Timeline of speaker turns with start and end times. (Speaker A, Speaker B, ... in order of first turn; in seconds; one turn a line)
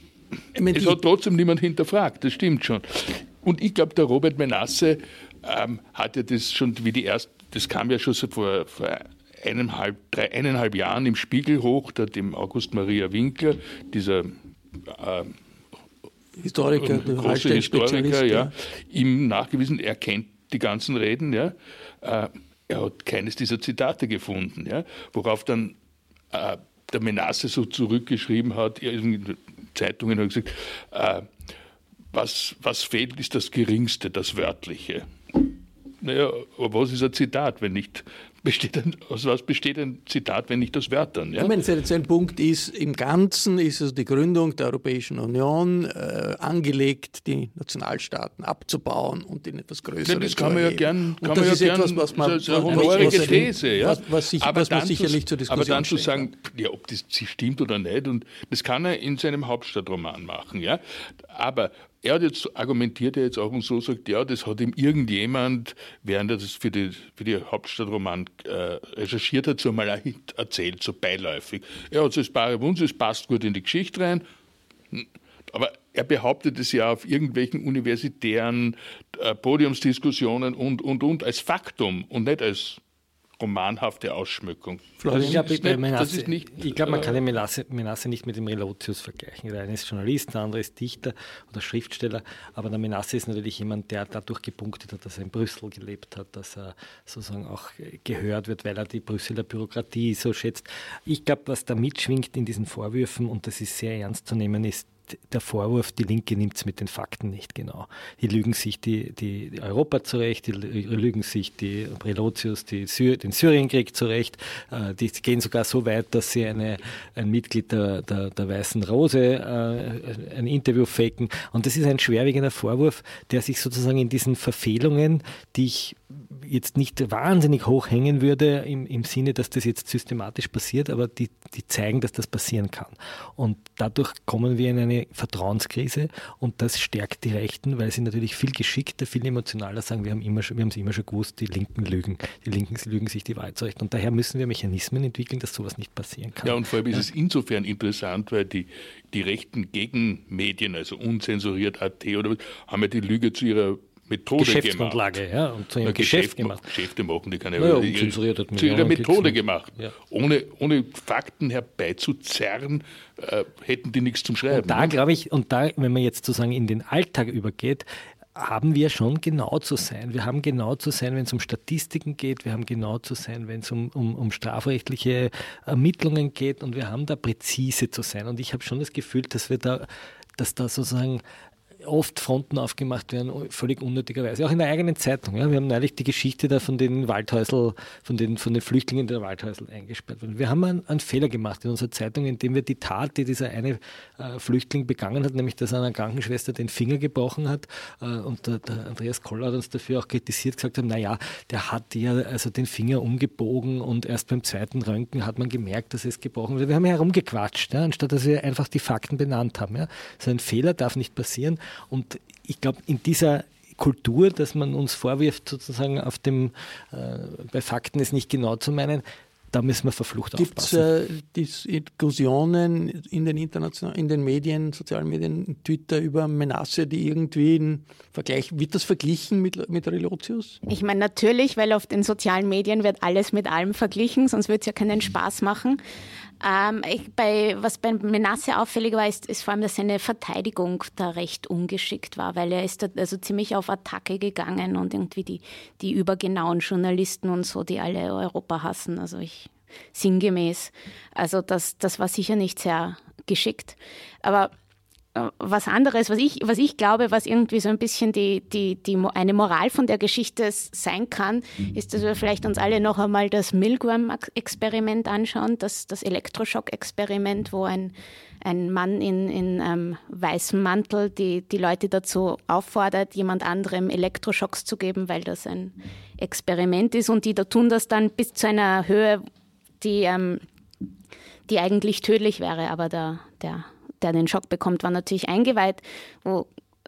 Speaker A: 0.6-1.0
Speaker B: 0.7-15.4
Speaker A: 16.4-18.5
Speaker B: 16.8-25.8
Speaker B: 26.3-31.3
Speaker B: 32.1-41.5
Speaker A: 41.4-56.3
Speaker B: 50.0-74.2
Speaker C: 52.7-53.5
Speaker B: 74.9-82.8
Speaker B: 83.4-87.2
Speaker A: 85.0-85.5
Speaker C: 85.1-147.1
Speaker B: 146.4-155.2
Speaker C: 154.4-156.7
Speaker B: 155.8-164.9
Speaker C: 157.6-159.9
Speaker C: 164.5-181.2
Speaker C: 181.8-220.9
Speaker A: 220.4-230.6
Speaker D: 230.7-235.8
Speaker D: 236.4-254.5
Speaker D: 255.2-279.2
Speaker D: 279.8-280.4
Speaker D: 281.5-286.5